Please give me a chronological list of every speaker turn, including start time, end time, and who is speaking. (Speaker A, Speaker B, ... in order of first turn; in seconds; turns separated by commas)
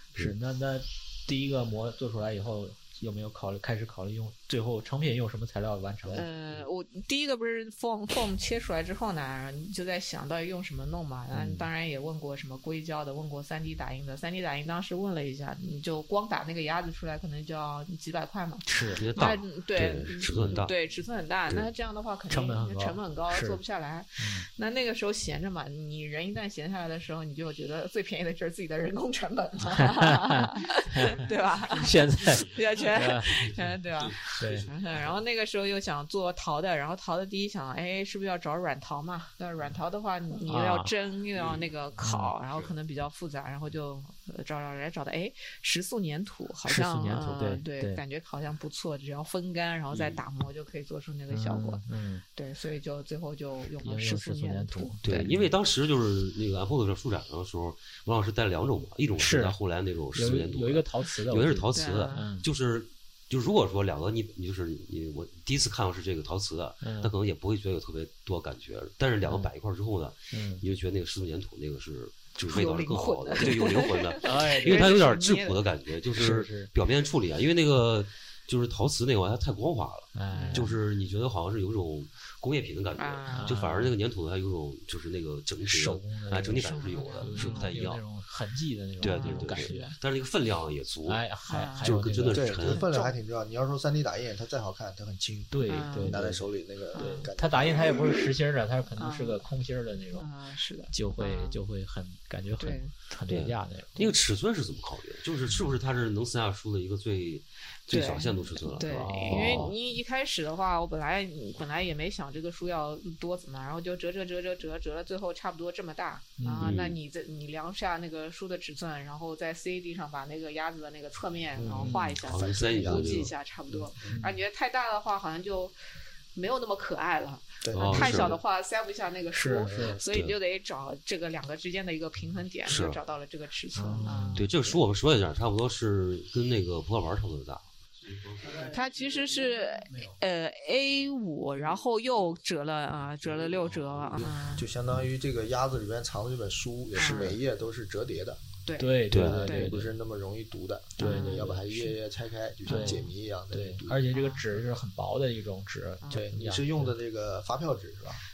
Speaker A: 0.1-6.3, Speaker B: 6.1-51.8, Speaker A: 11.3-11.7, Speaker A: 18.6-19.1, Speaker C: 19.0-20.7, Speaker A: 20.3-20.6, Speaker A: 22.3-23.6, Speaker A: 24.2-24.5, Speaker A: 29.7-33.5, Speaker C: 34.1-34.4, Speaker A: 34.2-34.7, Speaker A: 40.5-40.9, Speaker C: 41.4-41.6, Speaker A: 42.0-42.3, Speaker A: 46.6-48.0, Speaker C: 49.9-50.2, Speaker A: 51.3-52.2, Speaker B: 52.3-55.3, Speaker A: 53.8-55.5, Speaker C: 55.0-88.0, Speaker A: 59.2-59.5, Speaker A: 60.1-62.5, Speaker B: 61.7-62.3, Speaker A: 66.8-67.1, Speaker A: 69.2-69.5, Speaker A: 70.3-70.6, Speaker B: 72.4-75.6, Speaker A: 74.2-75.0, Speaker A: 76.1-76.7, Speaker A: 80.1-80.7, Speaker B: 80.3-80.7, Speaker B: 83.0-83.6, Speaker A: 83.3-83.9, Speaker A: 85.6-90.0, Speaker B: 86.5-87.6, Speaker C: 89.0-91.2, Speaker B: 89.0-89.8, Speaker A: 91.0-92.6, Speaker B: 91.5-92.0, Speaker C: 91.8-92.9, Speaker D: 92.3-98.3, Speaker B: 92.7-93.1, Speaker A: 95.5-96.5, Speaker B: 95.7-96.2, Speaker B: 96.9-97.3, Speaker A: 97.3-100.3, Speaker B: 99.0-99.4, Speaker B: 100.2-101.6, Speaker A: 100.9-104.1, Speaker B: 102.6-102.9, Speaker C: 103.3-109.7, Speaker B: 107.9-125.7, Speaker A: 108.8-109.7, Speaker A: 116.4-116.8, Speaker C: 116.6-117.0, Speaker D: 121.5-123.2, Speaker A: 121.8-122.1, Speaker C: 122.1-123.3, Speaker A: 124.0-124.4, Speaker B: 126.3-134.5, Speaker D: 127.6-128.4, Speaker C: 127.7-128.4, Speaker A: 129.3-130.0, Speaker C: 130.1-130.3, Speaker C: 132.7-133.0, Speaker A: 133.8-134.5, Speaker C: 134.3-137.7, Speaker B: 138.5-144.7, Speaker D: 144.4-148.4, Speaker B: 146.9-147.3, Speaker B: 148.7-149.7, Speaker A: 148.8-149.9, Speaker C: 149.1-149.4, Speaker D: 149.1-154.0, Speaker A: 151.0-151.8, Speaker B: 151.0-151.7, Speaker A: 152.7-156.9, Speaker B: 152.7-153.0, Speaker B: 154.1-154.4, Speaker D: 156.1-158.2